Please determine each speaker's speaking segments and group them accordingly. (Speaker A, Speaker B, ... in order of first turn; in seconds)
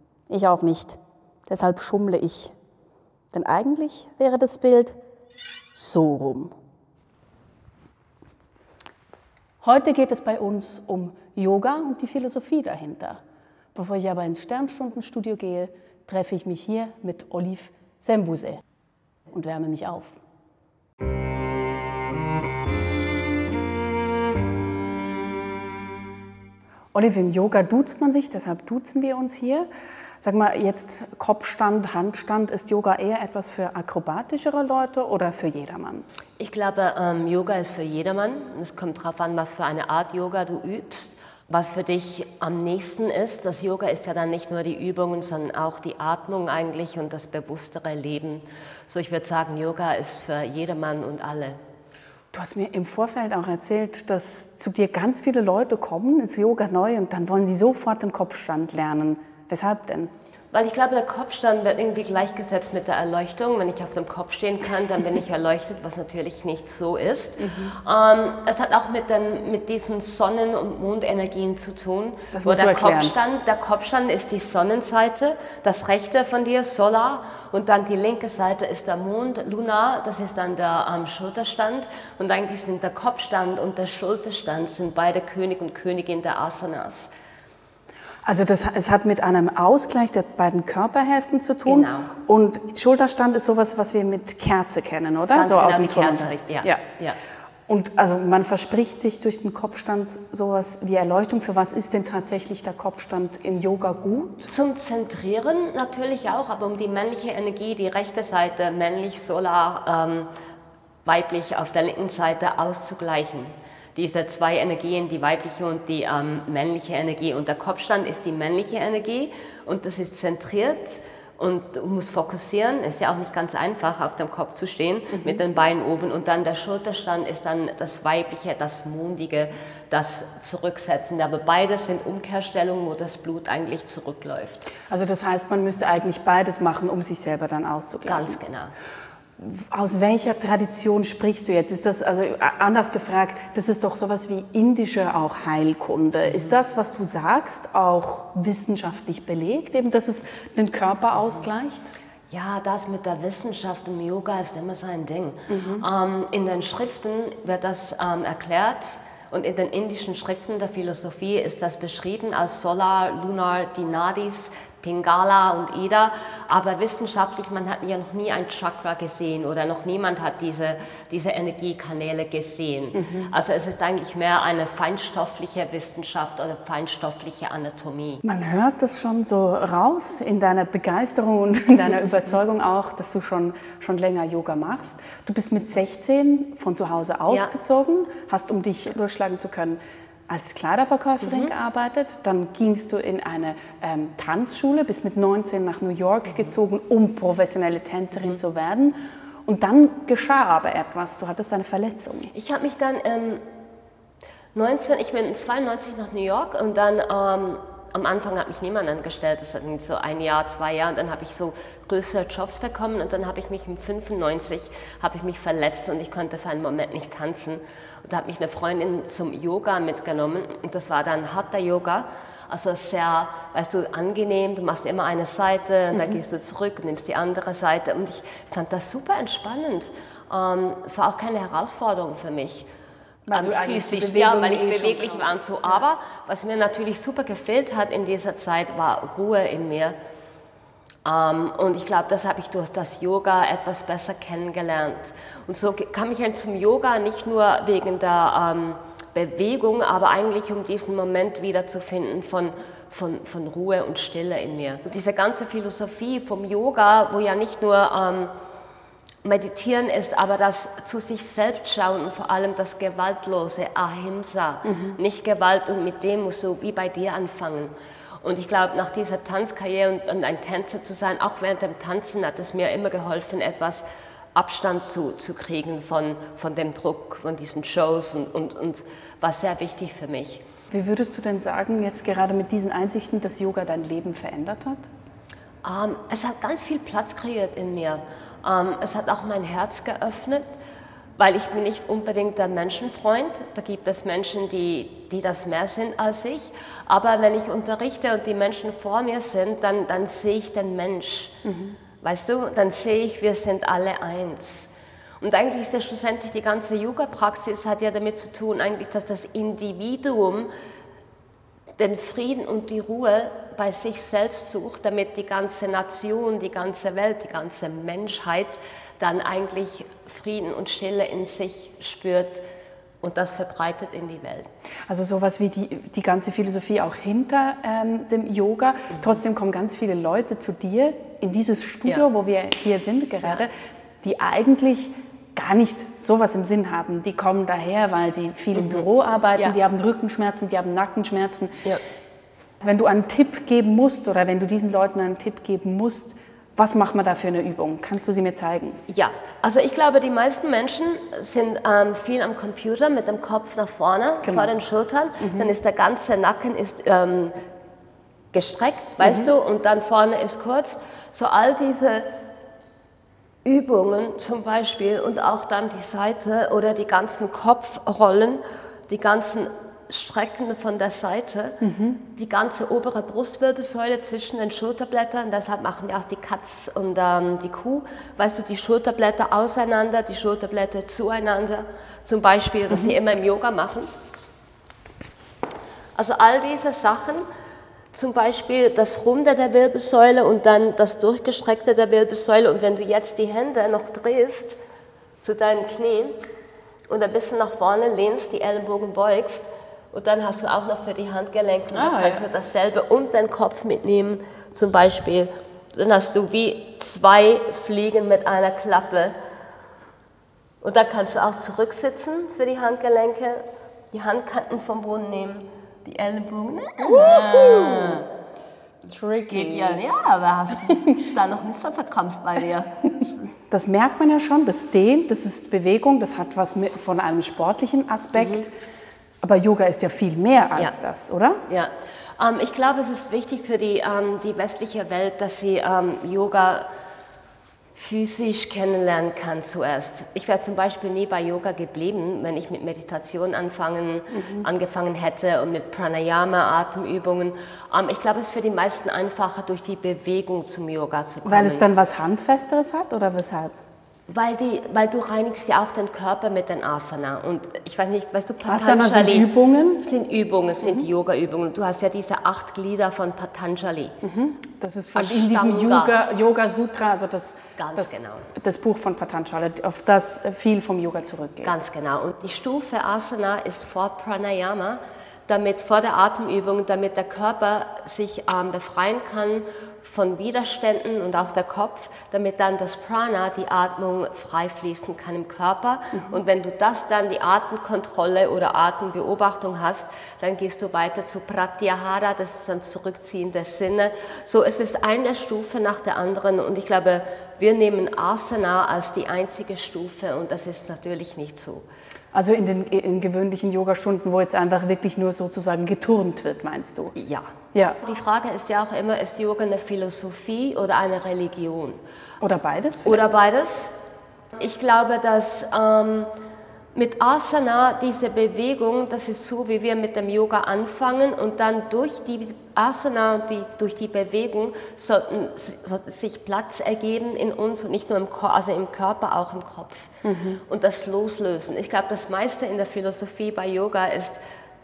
Speaker A: 0.3-2.5, 3.3-5.0, 5.7-6.5, 9.6-13.2, 13.7-18.6, 19.3-20.2, 26.9-29.7, 30.2-36.0, 52.3-60.1, 67.4-67.7, 72.3-73.1, 88.2-96.8, 97.7-104.5, 134.9-138.4, 139.4-151.9, 155.5-155.8, 172.9-173.3, 178.2-202.3, 233.3-235.8, 264.6-265.0, 280.7-284.9, 301.4-301.8, 324.9-341.6, 342.6-348.8, 354.2-354.5, 355.2-355.5, 359.0-359.3, 371.6-372.0, 401.7-402.2, 416.8-418.0, 418.9-419.8, 423.5-428.5, 429.2-431.4, 444.1-444.4, 451.2-453.5, 458.4-459.8, 464.0-471.5, 502.1-506.9, 512.2-513.1, 530.0-530.4
Speaker B: 36.4-51.6, 60.5-87.1, 91.7-92.1, 95.3-97.2, 104.5-110.3, 111.0-134.7, 138.1-138.7, 152.3-178.2, 187.3-187.5, 191.2-191.5, 202.3-203.4, 204.5-232.7, 233.3-240.0, 241.0-258.3, 259.2-273.8, 274.3-280.4, 285.6-290.5, 291.2-301.4, 302.0-310.5, 311.8-322.4, 323.0-324.5, 338.5-339.6, 348.9-357.4, 358.3-362.1, 363.4-371.6, 372.1-383.9, 385.9-387.2, 387.9-394.6, 395.2-396.1, 396.9-409.2, 410.6-418.1, 419.2-423.1, 428.1-428.5, 431.5-436.7, 437.7-451.7, 454.1-463.9, 464.9-466.0, 467.6-468.3, 471.4-501.6, 506.9-511.8, 512.8-513.7, 514.4-516.1, 516.7-529.9, 530.5-534.2